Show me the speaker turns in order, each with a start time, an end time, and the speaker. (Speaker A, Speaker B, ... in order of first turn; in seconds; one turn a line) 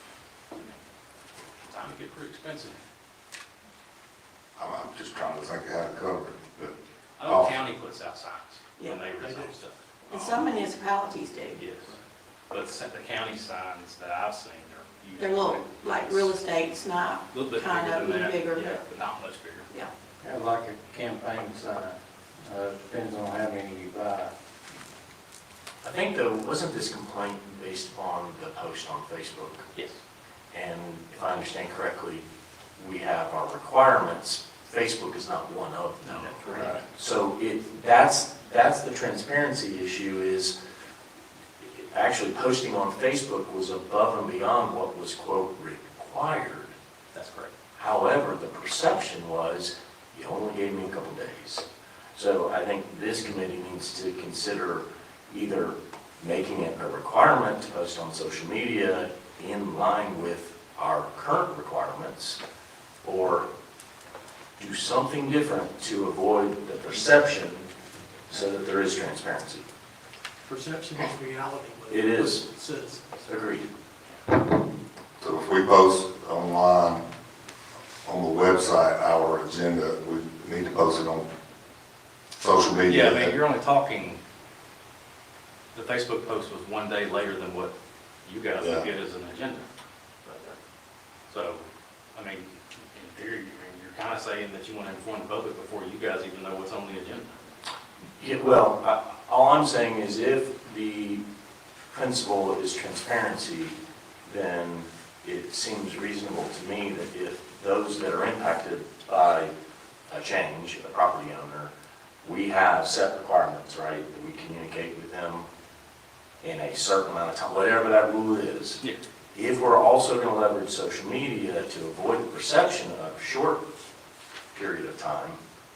Speaker A: 1.6-2.8
Speaker B: 4.6-6.7
Speaker A: 7.2-10.5
Speaker B: 7.3-7.6
Speaker C: 9.2-9.5
Speaker D: 10.1-11.6
Speaker A: 11.5-11.9
Speaker A: 12.5-16.3
Speaker D: 15.2-18.8
Speaker A: 17.3-19.7
Speaker E: 20.2-24.3
Speaker F: 25.8-29.7
Speaker F: 30.5-32.2
Speaker F: 32.8-40.5
Speaker A: 36.0-36.8
Speaker F: 41.6-46.7
Speaker A: 47.1-47.5
Speaker F: 47.8-62.4
Speaker F: 63.0-63.5
Speaker F: 64.6-67.7
Speaker F: 68.3-69.7
Speaker C: 70.5-73.0
Speaker F: 71.9-72.5
Speaker F: 73.2-73.7
Speaker B: 75.2-77.0
Speaker B: 78.0-81.3
Speaker B: 82.4-83.3
Speaker A: 82.9-84.2
Speaker A: 85.7-87.7
Speaker A: 88.2-89.7
Speaker B: 88.6-88.9
Speaker A: 90.2-90.6
Speaker A: 91.3-97.3
Speaker F: 98.2-101.2
Speaker F: 101.9-109.5
Speaker F: 110.1-111.7
Speaker F: 112.2-115.5
Speaker F: 116.4-118.8
Speaker F: 119.3-123.6
Speaker F: 124.5-125.4